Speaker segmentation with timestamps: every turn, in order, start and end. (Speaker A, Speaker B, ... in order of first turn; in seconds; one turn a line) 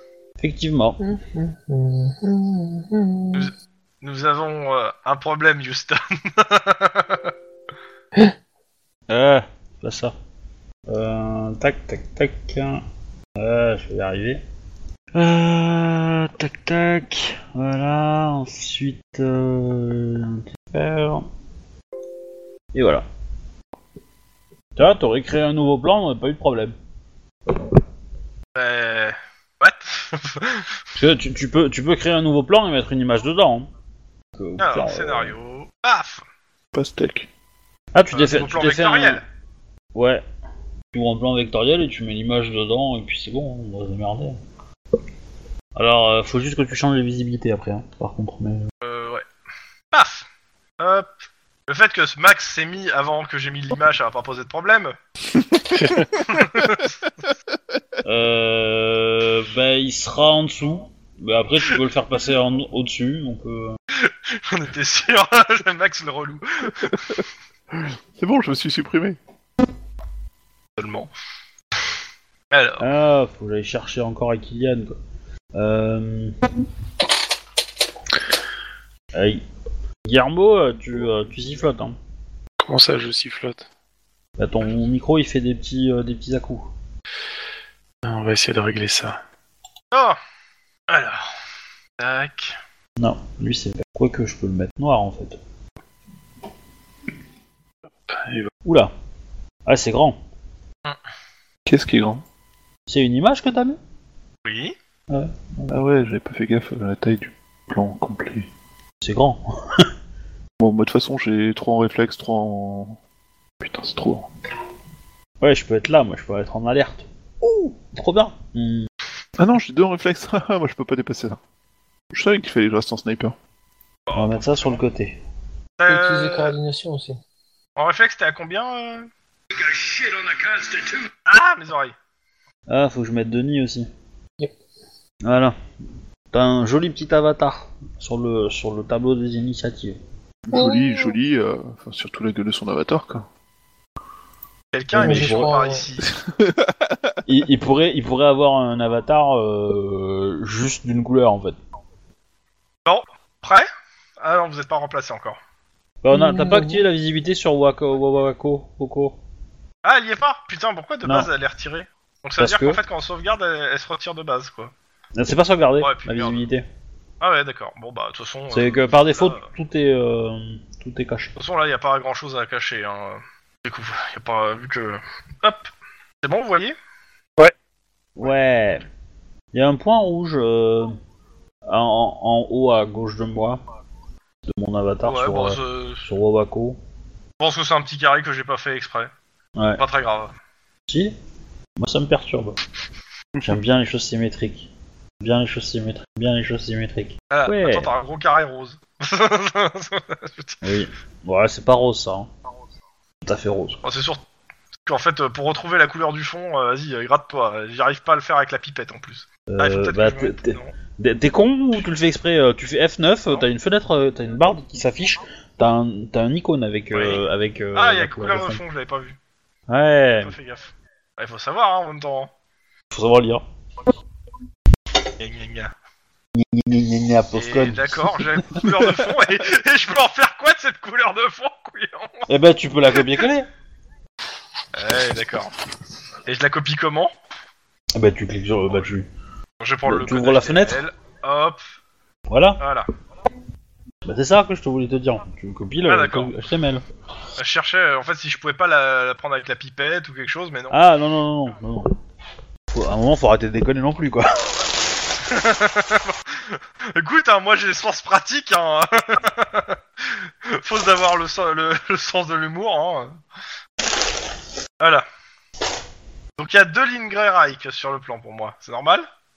Speaker A: 0.4-1.0
Speaker B: 1.0-3.5
Speaker C: 3.3-7.3
Speaker A: 9.1-10.2
Speaker A: 10.9-12.8
Speaker A: 13.4-14.4
Speaker A: 15.2-21.3
Speaker A: 22.7-23.1
Speaker A: 24.8-26.8
Speaker C: 28.6-30.7
Speaker A: 31.0-33.7
Speaker A: 34.4-35.3
Speaker C: 34.6-36.2
Speaker D: 36.7-37.3
Speaker A: 37.9-39.2
Speaker C: 38.1-39.2
Speaker A: 40.0-40.2
Speaker A: 40.9-44.4
Speaker A: 45.8-48.7
Speaker C: 48.8-49.2
Speaker C: 49.9-50.3
Speaker C: 50.8-51.1
Speaker C: 51.7-55.0
Speaker E: 55.7-56.2
Speaker C: 56.3-57.0
Speaker A: 58.0-63.8
Speaker C: 64.0-67.2
Speaker D: 67.7-69.2
Speaker C: 70.8-71.1
Speaker C: 72.5-72.8
Speaker A: 72.8-75.0
Speaker A: 75.5-76.3
Speaker A: 79.1-79.4
Speaker A: 80.1-82.0
Speaker E: 82.6-83.7
Speaker A: 84.4-86.7
Speaker E: 88.0-89.2
Speaker C: 89.9-90.2
Speaker C: 90.9-91.3
Speaker C: 92.0-92.6
Speaker A: 93.0-95.4
Speaker E: 98.1-98.5
Speaker A: 98.7-98.9
Speaker A: 99.7-100.2
Speaker D: 101.7-102.2
Speaker A: 102.9-103.8
Speaker C: 104.5-104.8
Speaker A: 105.1-105.8
Speaker D: 105.7-108.5
Speaker A: 109.0-109.9
Speaker D: 110.6-113.0
Speaker D: 113.6-114.3
Speaker A: 115.4-118.9
Speaker D: 119.4-121.4
Speaker D: 122.1-123.4
Speaker C: 124.1-124.8
Speaker A: 124.1-125.2
Speaker C: 125.8-126.6
Speaker B: 125.9-127.2
Speaker C: 127.8-129.1
Speaker A: 129.6-131.1
Speaker C: 131.3-131.9
Speaker A: 132.7-133.9
Speaker A: 135.2-135.6
Speaker A: 136.3-140.0
Speaker D: 140.4-143.3
Speaker B: 140.5-141.2
Speaker C: 144.7-146.1
Speaker A: 144.9-145.5
Speaker B: 145.0-145.9
Speaker D: 146.1-147.2
Speaker A: 147.3-151.6
Speaker C: 152.9-153.7
Speaker C: 154.2-155.4
Speaker A: 156.0-159.2
Speaker B: 156.1-156.8
Speaker C: 159.8-164.7
Speaker A: 161.0-161.3
Speaker A: 162.4-162.8
Speaker A: 165.2-166.7
Speaker C: 165.8-166.4
Speaker C: 167.2-169.5
Speaker A: 168.5-171.4
Speaker C: 171.4-175.7
Speaker C: 176.2-176.8
Speaker A: 178.2-178.8
Speaker A: 179.5-181.0
Speaker A: 181.7-183.6
Speaker A: 184.5-186.8
Speaker C: 185.0-186.1
Speaker C: 187.4-189.1
Speaker A: 189.6-189.8
Speaker C: 189.8-190.3
Speaker A: 190.9-191.2
Speaker A: 191.8-192.6
Speaker A: 193.4-194.7
Speaker A: 195.2-197.9
Speaker C: 197.3-200.6
Speaker A: 200.6-202.3
Speaker A: 203.2-203.8
Speaker C: 203.8-204.2
Speaker C: 204.9-210.7
Speaker A: 209.5-218.6
Speaker C: 216.9-219.2
Speaker A: 219.7-220.3
Speaker C: 220.2-222.3
Speaker A: 222.9-223.4
Speaker C: 225.2-225.7
Speaker A: 226.3-228.5
Speaker C: 227.3-232.3
Speaker A: 232.3-233.5
Speaker C: 234.7-235.5
Speaker C: 236.3-237.1
Speaker A: 237.9-239.1
Speaker C: 239.6-241.6
Speaker A: 239.9-240.8
Speaker A: 242.3-242.6
Speaker C: 242.6-242.9
Speaker A: 244.1-246.8
Speaker C: 245.9-246.3
Speaker C: 247.4-250.8
Speaker A: 250.7-251.9
Speaker A: 252.7-254.6
Speaker C: 255.3-263.2
Speaker C: 264.8-265.1
Speaker C: 266.4-269.1